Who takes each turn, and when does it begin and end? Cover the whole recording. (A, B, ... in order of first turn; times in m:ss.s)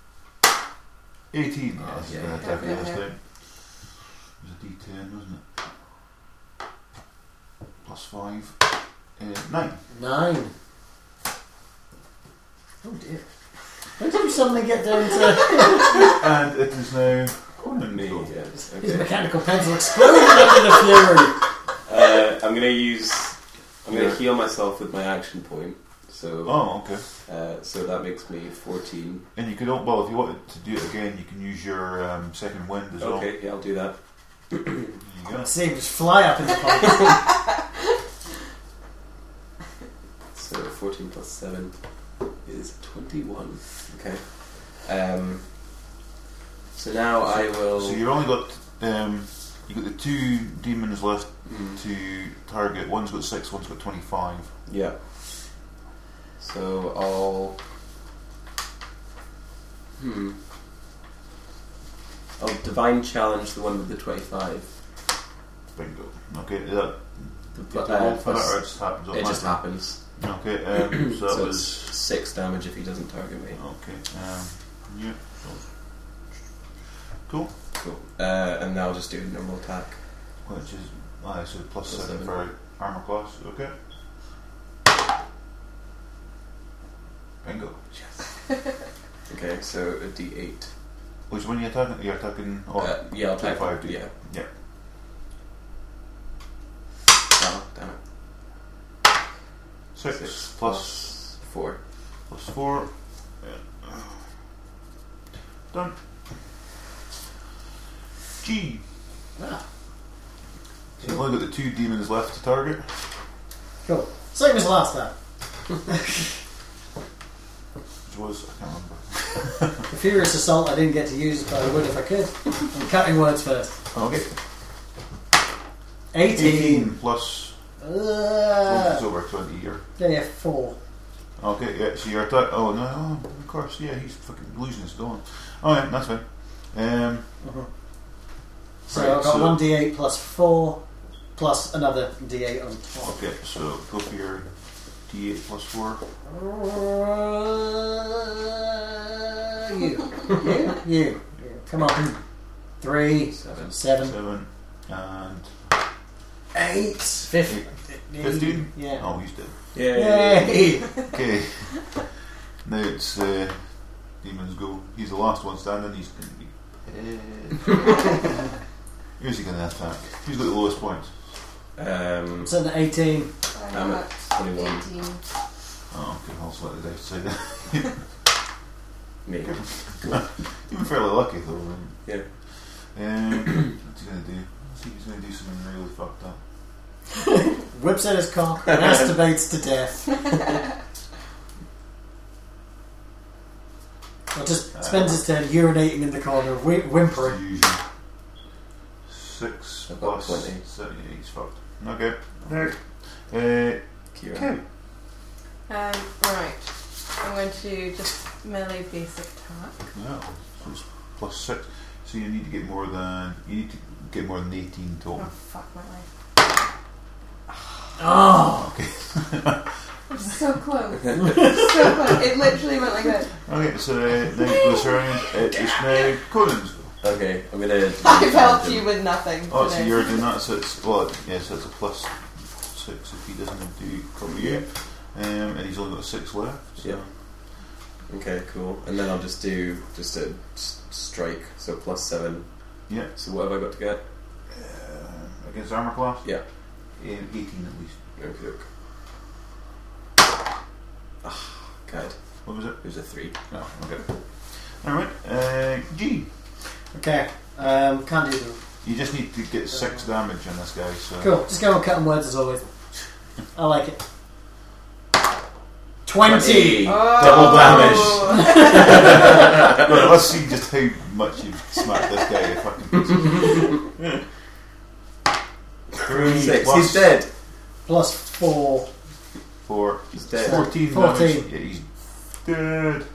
0:01.3-0:03.2 A
0:01.8-0:02.6 B
0:02.4-0:03.0 C
0:04.4-0:05.4 A
0:07.8-0:08.6 A
0:09.2-0:09.8 A
0:09.9-0:10.5 D
0:12.8-0:13.2 D
0:14.0-0:16.2 D
0:15.8-0:18.3 A
0:17.9-0:19.1 B
0:18.8-0:21.4 D
0:21.9-0:26.6 B
0:23.9-0:24.2 A
0:26.4-0:27.0 A
0:27.2-0:29.2 B
0:29.3-0:33.3 A
0:33.0-0:34.0 B
0:34.5-0:35.0 B
0:35.0-0:35.5 A
0:35.4-0:37.2 D
0:40.3-0:41.7 B
0:42.4-0:45.4 B
0:46.7-0:48.0 B
0:47.3-0:54.5 A
0:51.4-0:51.8 B
0:54.6-0:55.0 B
0:56.4-0:57.6 B
1:00.0-1:00.4 B
1:02.4-1:04.7 B
1:05.7-1:09.6 A
1:07.5-1:10.0 B
1:10.2-1:11.9 A
1:10.7-1:13.6 B
1:13.6-1:15.6 A
1:17.3-1:17.5 A
1:17.8-1:20.0 B
1:20.4-1:23.7 A
1:21.9-1:22.4 B
1:27.4-1:27.8 A
1:29.3-1:30.7 B
1:31.3-1:34.5 A
1:32.8-1:34.1 B
1:37.3-1:38.0 B
1:39.9-1:41.1 A
1:40.1-1:41.8 B
1:42.3-1:44.2 A
1:48.4-1:48.8 A
1:49.4-1:49.6 D
1:51.0-1:52.9 A
1:53.9-1:55.1 D
1:55.9-1:56.2 D
1:58.1-1:59.9 A
1:59.9-2:03.8 D
2:03.9-2:04.3 A
2:06.1-2:06.9 D
2:06.3-2:07.5 A
2:07.8-2:09.0 D
2:08.6-2:09.8 A
2:10.0-2:10.8 D
2:11.4-2:17.3 A
2:17.4-2:17.7 D
2:18.9-2:20.8 D
2:18.9-2:19.6 A
2:21.3-2:23.2 D
2:23.0-2:24.5 A
2:25.1-2:26.0 A
2:26.3-2:32.2 D
2:32.8-2:34.2 D
2:33.3-2:33.7 B
2:34.0-2:35.6 A
2:36.5-2:39.0 D
2:38.2-2:39.5 A
2:39.7-2:40.7 B
2:39.8-2:41.1 D
2:41.0-2:41.9 A
2:42.6-2:48.2 A
2:49.2-2:51.2 A
2:51.8-2:52.5 B
2:52.4-2:53.3 D
2:53.5-2:55.2 C
2:53.7-2:54.8 B
2:55.9-2:58.0 A
2:59.2-3:00.2 B
2:59.4-3:02.0 A
3:02.9-3:06.4 A
3:07.1-3:10.6 D
3:14.3-3:17.4 D
3:14.8-3:15.2 A
3:17.2-3:17.8 A
3:19.1-3:22.7 A
3:19.9-3:20.6 B
3:22.4-3:22.7 D
3:23.3-3:24.6 A
3:24.1-3:24.6 B
3:25.7-3:26.6 C
3:27.2-3:29.8 C
3:29.9-3:35.3 A
3:35.1-3:36.0 C
3:38.0-3:38.7 D
3:38.4-3:39.6 A
3:40.1-3:43.3 C
3:41.2-3:41.7 D
3:43.4-3:46.9 A
3:44.5-3:46.1 C
3:47.0-3:48.9 B
3:48.0-3:50.2 C
3:49.5-3:57.1 A
3:54.2-3:54.6 B
3:58.1-4:02.5 B
4:03.1-4:04.0 B
4:04.5-4:06.2 A
4:07.0-4:08.0 A
4:08.2-4:08.6 B
4:11.2-4:12.2 B
4:12.4-4:12.8 A
4:12.8-4:13.3 B
4:13.5-4:14.1 A
4:14.7-4:16.3 A
4:16.9-4:18.6 D
4:18.8-4:21.3 A
4:21.2-4:22.7 D
4:23.6-4:24.0 D
4:26.0-4:27.1 D
4:26.2-4:28.0 B
4:26.8-4:29.2 C
4:27.1-4:33.6 A
4:28.2-4:29.0 D
4:28.7-4:29.9 B
4:35.9-4:37.3 B
4:36.0-4:37.2 A
4:37.8-4:38.9 D
4:39.6-4:43.0 A
4:40.1-4:40.7 B
4:40.4-4:41.5 D